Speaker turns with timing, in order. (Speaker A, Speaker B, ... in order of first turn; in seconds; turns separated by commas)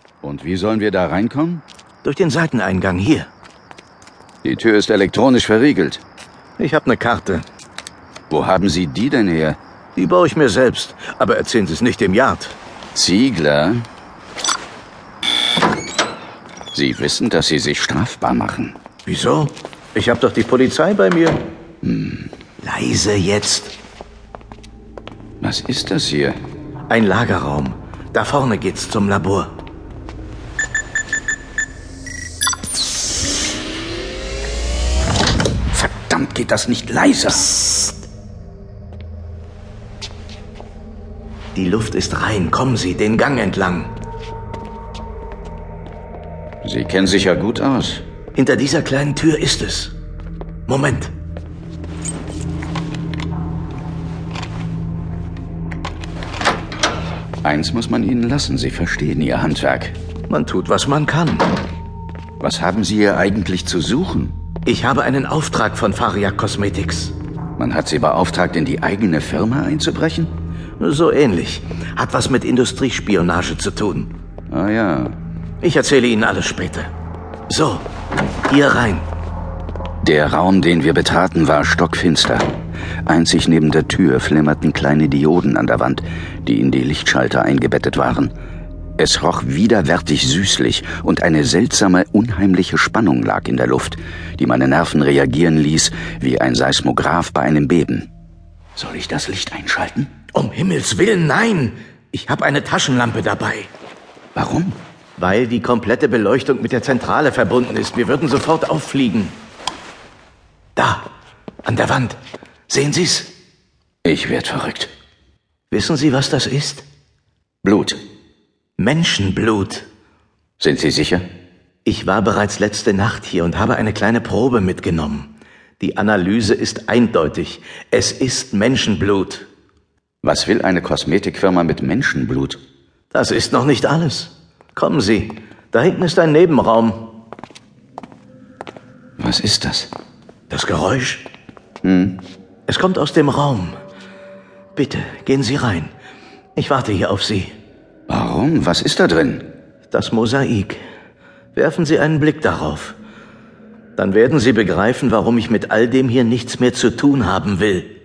Speaker A: 0.2-1.6, Speaker B: 2.0-3.3, Speaker A: 4.4-6.0, Speaker B: 6.6-7.4, Speaker A: 8.3-9.6, Speaker B: 9.9-12.6, Speaker A: 12.9-13.8, Speaker A: 16.7-18.8, Speaker B: 19.0-21.4, Speaker A: 21.8-22.3, Speaker B: 22.6-23.8, Speaker A: 25.4-26.4, Speaker B: 26.9-29.5, Speaker A: 35.7-37.5, Speaker B: 41.5-43.9, Speaker A: 46.6-48.0, Speaker B: 48.3-49.9, Speaker B: 50.7-51.1, Speaker A: 57.4-60.0, Speaker B: 60.3-61.5, Speaker A: 62.4-64.3, Speaker B: 64.6-67.1, Speaker A: 67.6-70.3, Speaker B: 70.8-74.1, Speaker A: 74.5-75.2, Speaker B: 75.6-76.9, Speaker B: 77.5-77.9, Speaker B: 78.5-79.0, Speaker A: 80.0-82.5, Speaker A: 83.0-88.3, Speaker A: 89.0-98.1, Speaker A: 98.8-100.1, Speaker B: 100.3-103.7, Speaker A: 104.3-104.8, Speaker B: 105.2-109.4, Speaker B: 110.8-111.0, Speaker B: 111.6-112.2, Speaker B: 112.7-113.3, Speaker A: 114.0-114.9, Speaker B: 115.7-116.8, Speaker A: 117.6-118.0, Speaker B: 118.8-119.9, Speaker A: 120.6-121.2, Speaker B: 121.8-129.5, Speaker A: 130.2-132.6, Speaker B: 133.1-137.1, Speaker A: 139.2-139.9, Speaker B: 140.5-141.2, Speaker A: 141.8-142.2, Speaker B: 142.7-143.8, Speaker B: 144.7-145.9, Speaker B: 146.6-147.5, Speaker A: 148.1-149.4, Speaker B: 149.9-150.8, Speaker B: 151.5-152.9, Speaker B: 154.0-157.9